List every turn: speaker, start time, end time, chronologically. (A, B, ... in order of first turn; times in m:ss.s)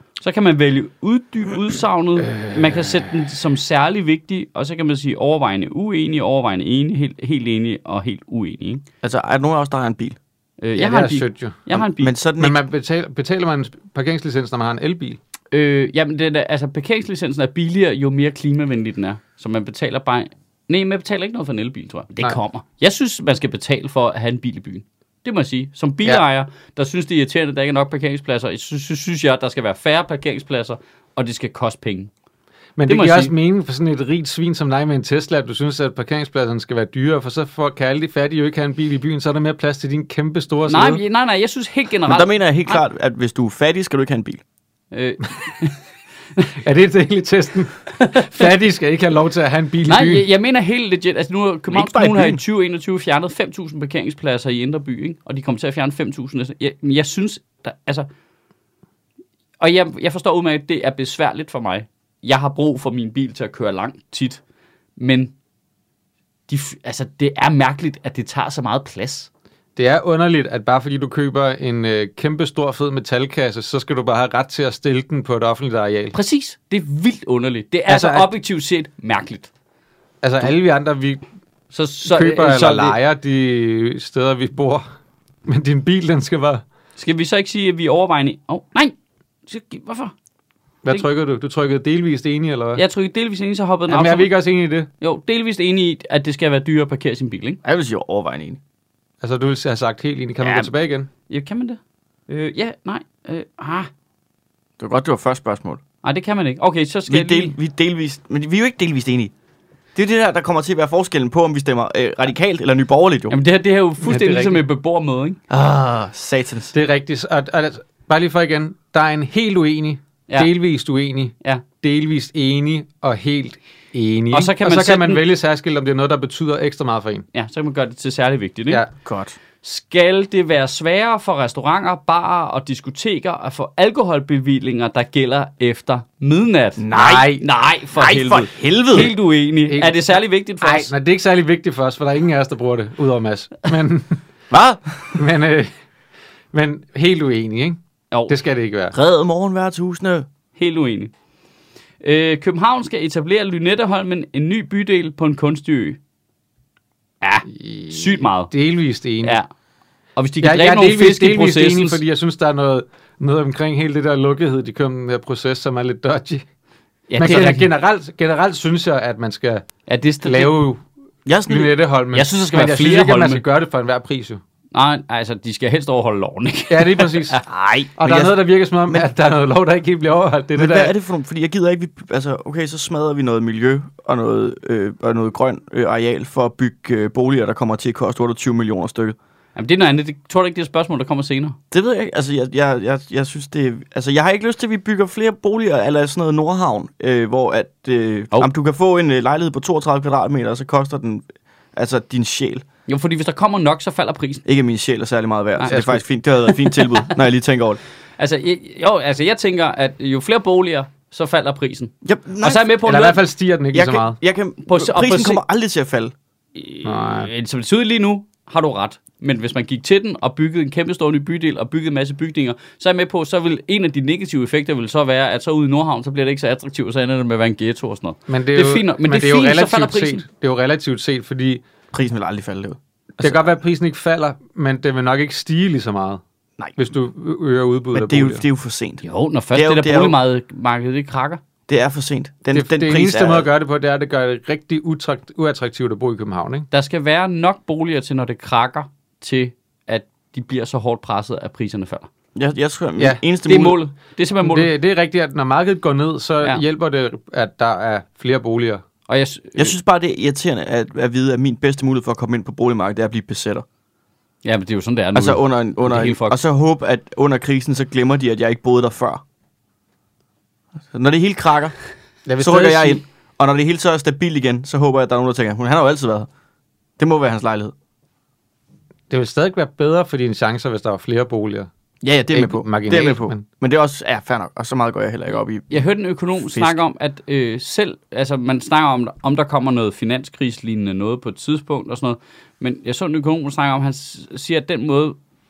0:00.2-0:08.8 A
0:02.3-0:03.0 B
0:09.0-0:10.2 C
0:10.6-0:12.1 A
0:10.8-0:11.7 B
0:11.7-0:12.6 C
0:12.4-0:15.2 B
0:15.5-0:32.1 A
0:32.8-0:41.0 B
0:32.8-0:33.3 A
0:40.7-0:42.8 A
0:42.1-0:44.4 C
0:44.9-0:45.8 A
0:46.6-0:50.2 B
0:47.9-0:48.4 A
0:49.9-0:58.1 A
0:51.7-0:52.4 C
0:59.6-1:04.4 A
1:05.0-1:05.3 A
1:06.5-1:09.3 A
1:09.8-1:16.1 B
1:16.1-1:19.5 A
1:17.9-1:18.3 B
1:20.2-1:21.2 B
1:21.7-1:23.0 A
1:22.0-1:24.8 B
1:25.4-1:26.6 B
1:27.0-1:28.9 A
1:29.5-1:30.1 A
1:30.8-1:32.8 B
1:32.8-1:34.4 A
1:33.9-1:34.9 B
1:35.0-1:37.6 A
1:37.6-1:38.6 C
1:39.2-1:41.1 B
1:40.4-1:40.7 A
1:41.3-1:43.9 A
1:44.8-1:45.8 C
1:46.0-1:47.5 A
1:47.1-1:49.3 C
1:49.9-1:53.4 C
1:53.3-1:55.4 A
1:54.0-1:54.6 B
1:55.5-1:56.7 C
1:56.7-2:07.2 B
2:04.3-2:05.2 A
2:07.3-2:08.8 A
2:09.0-2:09.4 C
2:09.6-2:20.9 A
2:16.8-2:17.3 C
2:16.9-2:17.4 B
2:17.9-2:19.1 C
2:19.7-2:24.2 B
2:24.5-2:25.2 C
2:25.1-2:25.7 B
2:26.5-2:29.0 B
2:28.9-2:30.2 C
2:30.6-2:31.1 A
2:32.0-2:36.0 A
2:37.2-2:38.5 A
2:37.5-2:39.4 B
2:40.2-2:42.0 A
2:40.4-2:46.4 B
2:47.1-2:47.7 A
2:47.2-2:49.6 B
2:49.9-2:50.6 A
2:50.2-2:50.8 B
2:51.2-2:51.8 C
2:51.5-2:54.4 B
2:52.1-2:53.4 A
2:54.7-2:57.4 A
2:56.7-2:57.4 B
2:57.5-2:59.0 C
2:58.0-3:00.9 B
3:00.5-3:09.2 C
3:09.6-3:11.6 A
3:11.7-3:22.6 C
3:22.9-3:24.4 A
3:24.4-3:27.8 C
3:25.7-3:26.0 B
3:26.4-3:26.9 A
3:28.2-3:33.2 A
3:32.0-3:32.7 C
3:32.8-3:34.2 B
3:33.7-3:36.1 C
3:34.6-3:35.4 A
3:36.5-3:50.2 A
3:36.8-3:37.3 B
3:48.3-3:51.6 B
3:51.9-3:53.5 C
3:53.2-3:56.2 B
3:56.8-3:58.4 B
3:57.9-4:00.2 C
3:59.0-4:01.4 A
4:01.7-4:03.5 C
4:02.5-4:06.7 B
4:06.7-4:12.1 A
4:12.3-4:13.8 C
4:13.4-4:14.7 A
4:14.4-4:18.8 B
4:19.1-4:19.8 A
4:19.6-4:23.6 C
4:24.4-4:26.4 A
4:25.1-4:29.2 C
4:30.9-4:31.8 C
4:32.2-4:33.0 B
4:32.4-4:36.3 C
4:37.0-4:37.7 C
4:39.1-4:41.7 B
4:42.0-4:45.8 C
4:42.3-4:43.4 B
4:45.7-4:55.2 A
4:46.4-4:46.8 C